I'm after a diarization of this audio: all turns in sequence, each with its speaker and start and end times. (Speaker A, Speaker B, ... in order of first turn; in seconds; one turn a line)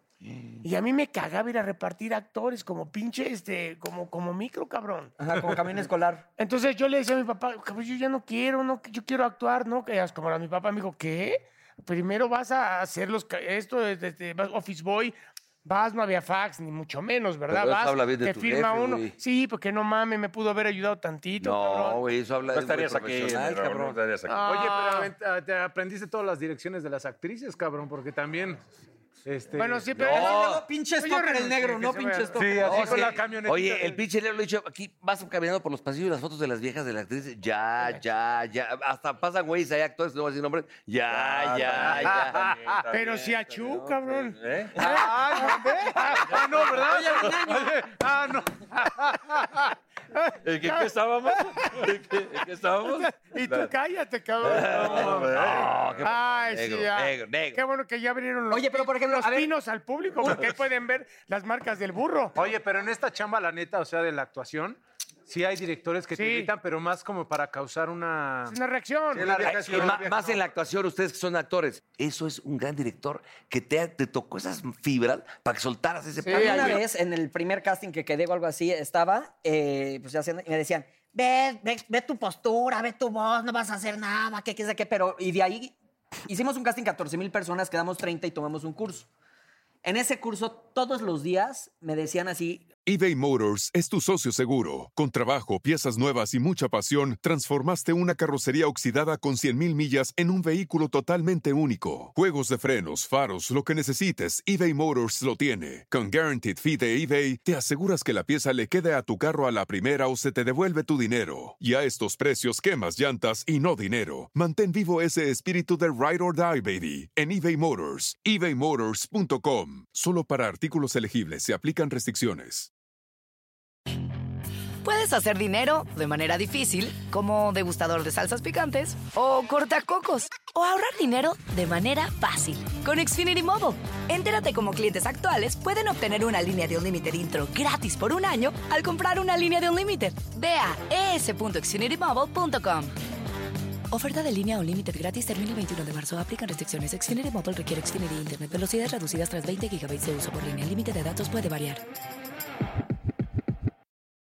Speaker A: 0.6-5.1
Speaker B: 5.2-6.2
Speaker A: 6.4-22.0
Speaker C: 17.5-19.2
Speaker C: 21.4-24.0
Speaker D: 22.5-24.6
Speaker A: 24.3-25.1
Speaker E: 24.5-28.6
Speaker E: 29.2-30.0
Speaker A: 29.5-33.1
Speaker C: 29.9-30.6
Speaker B: 30.1-33.1
Speaker E: 32.3-34.0
Speaker C: 32.6-42.5
Speaker D: 41.1-44.9
Speaker E: 42.0-42.8
Speaker A: 42.9-46.2
Speaker E: 44.8-49.7
Speaker B: 46.7-47.8
Speaker D: 50.4-53.7
Speaker A: 50.6-51.0
Speaker A: 52.9-55.3
Speaker C: 54.4-57.6
Speaker D: 54.4-56.1
Speaker E: 54.9-55.3
Speaker A: 56.0-62.4
Speaker B: 58.5-59.5
Speaker E: 62.4-68.6
Speaker A: 66.1-66.5
Speaker A: 68.5-70.2
Speaker E: 69.1-70.3
Speaker D: 69.2-70.0
Speaker C: 69.3-76.8
Speaker A: 76.2-76.8
Speaker B: 76.3-85.7
Speaker B: 86.3-89.1
Speaker B: 89.8-92.7
Speaker F: 92.8-122.7
Speaker G: 124.8-142.9
Speaker G: 143.9-151.8